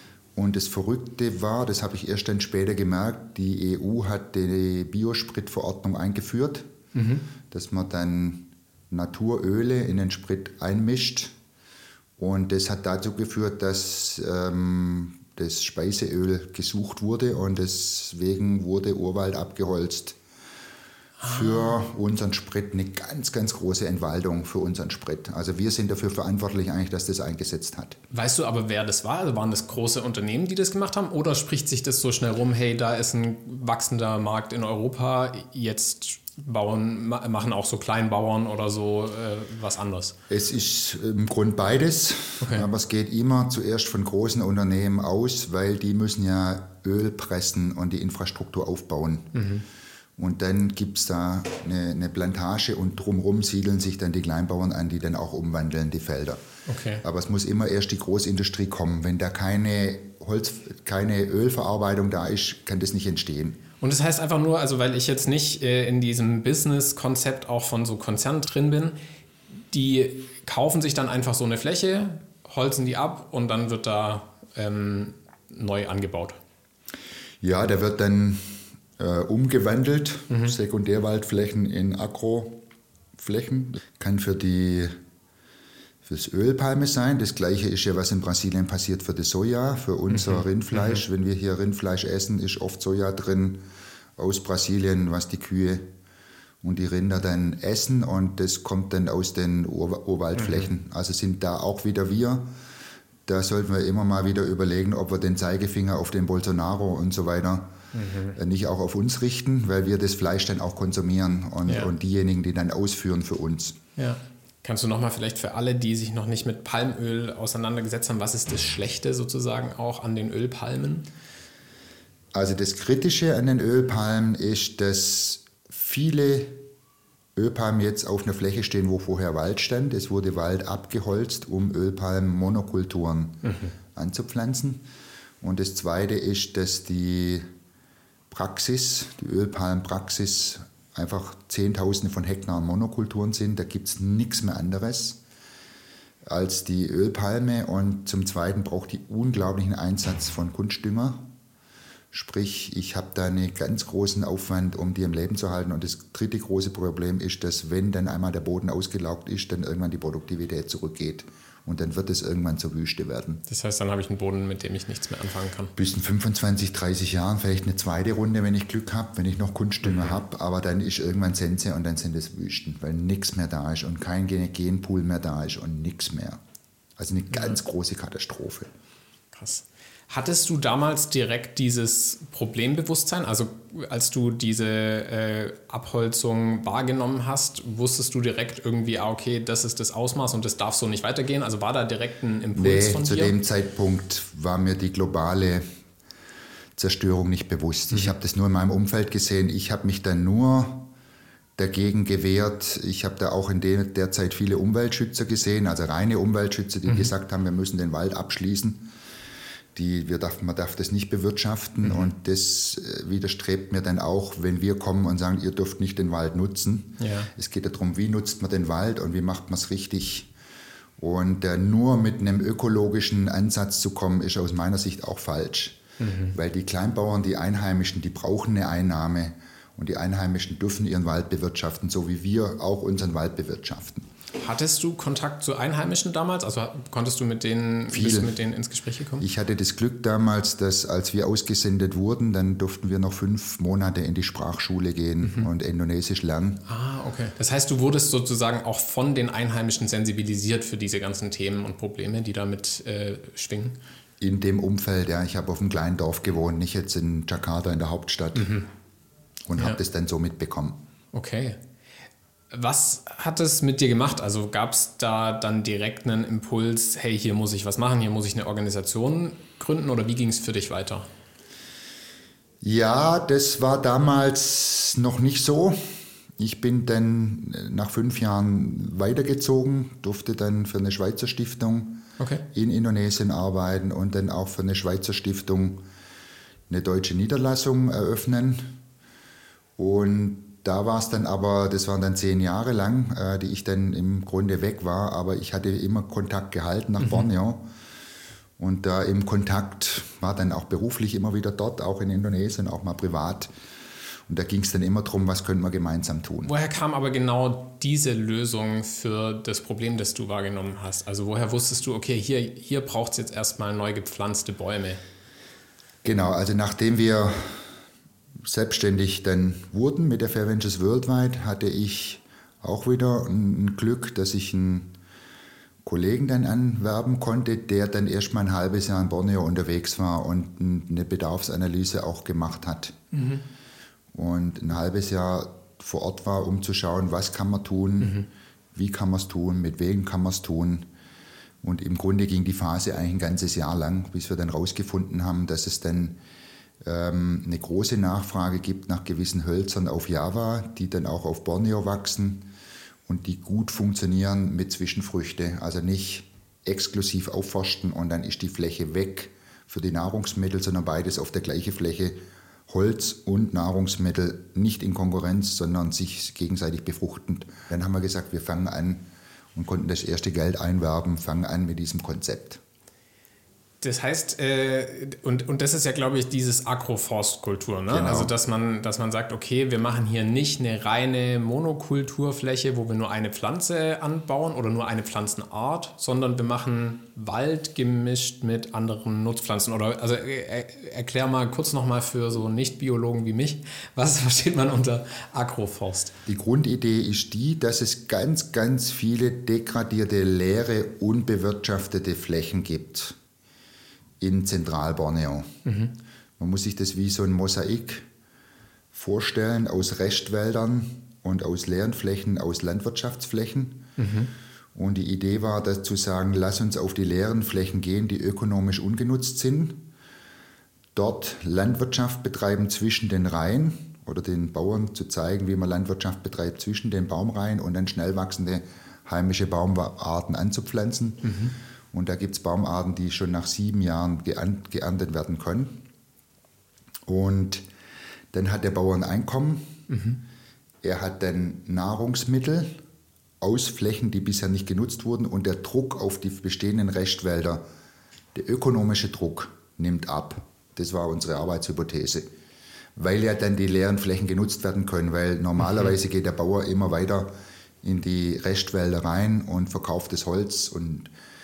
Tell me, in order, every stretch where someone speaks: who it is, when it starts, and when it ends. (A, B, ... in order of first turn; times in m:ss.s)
0:00.4-0:06.7 A
0:06.9-0:07.2 B
0:07.5-0:11.3 A
0:12.2-0:20.2 A
0:21.2-0:21.8 B
0:21.2-0:28.0 A
0:28.1-0:40.1 B
0:40.3-0:49.3 A
0:42.4-0:42.6 B
0:49.3-0:49.6 B
0:50.2-0:56.4 A
0:56.7-0:57.0 B
0:57.0-1:03.6 A
1:03.8-1:09.0 B
1:09.7-1:16.4 B
1:17.4-1:22.6 A
1:23.2-1:25.0 A
1:26.0-1:33.6 A
1:30.1-1:31.0 B
1:34.2-1:35.9 A
1:36.6-1:42.5 A
1:40.4-1:40.7 B
1:43.3-1:47.7 A
1:47.9-1:48.4 B
1:48.3-1:53.8 A
1:54.0-2:01.0 B
2:02.3-2:06.6 A
2:07.4-2:13.4 A
2:13.4-2:13.7 B
2:13.9-2:14.8 A
2:15.4-2:17.5 A
2:18.3-2:25.2 A
2:26.2-2:31.3 A
2:32.1-2:43.4 A
2:43.5-2:45.7 B
2:45.7-2:56.4 A
2:49.8-2:50.2 B
2:57.0-2:58.7 A
2:59.3-3:13.3 B
3:12.5-3:15.6 A
3:16.8-3:20.9 A
3:21.6-3:28.9 A
3:29.7-3:40.3 A
3:37.0-3:37.3 B
3:41.0-3:45.8 A
3:46.0-3:46.3 B
3:46.3-3:54.1 A
3:54.4-3:59.2 B
3:57.9-3:58.4 A
3:59.2-4:06.6 A
4:05.2-4:05.5 B
4:06.6-4:13.8 B
4:14.2-4:18.5 A
4:18.3-4:18.7 B
4:19.5-4:20.8 A
4:21.1-4:21.6 B
4:22.5-4:31.1 B
4:32.6-4:35.8 A
4:36.4-4:45.8 A
4:42.2-4:42.4 B
4:46.7-4:48.7 A
4:49.8-4:57.6 A
4:57.0-4:57.2 B
4:58.6-5:03.5 A
5:04.3-5:06.5 A
5:06.4-5:15.0 B
5:16.0-5:17.6 A
5:18.4-5:24.9 A
5:25.8-5:32.9 A
5:33.1-5:33.4 B
5:34.1-5:38.2 A
5:38.0-5:38.3 B
5:38.7-5:40.9 A
5:41.6-5:46.2 A
5:46.8-5:52.5 A
5:53.0-6:02.2 A
6:02.7-6:09.0 A
6:09.5-6:12.6 A
6:13.8-6:36.1 B
6:17.9-6:18.3 A
6:36.2-6:43.2 A
6:44.2-6:45.5 A
6:45.6-6:45.9 B
6:46.4-6:48.1 A
6:48.9-6:53.8 A
6:54.0-6:54.3 B
6:54.7-6:59.8 A
7:00.9-7:11.3 A
7:11.2-7:11.5 B
7:11.9-7:15.8 A
7:17.1-7:17.6 A
7:18.3-7:19.8 A
7:19.9-7:20.2 B
7:20.8-7:22.8 A
7:23.4-7:27.6 A
7:28.3-7:32.2 A
7:33.0-7:41.1 A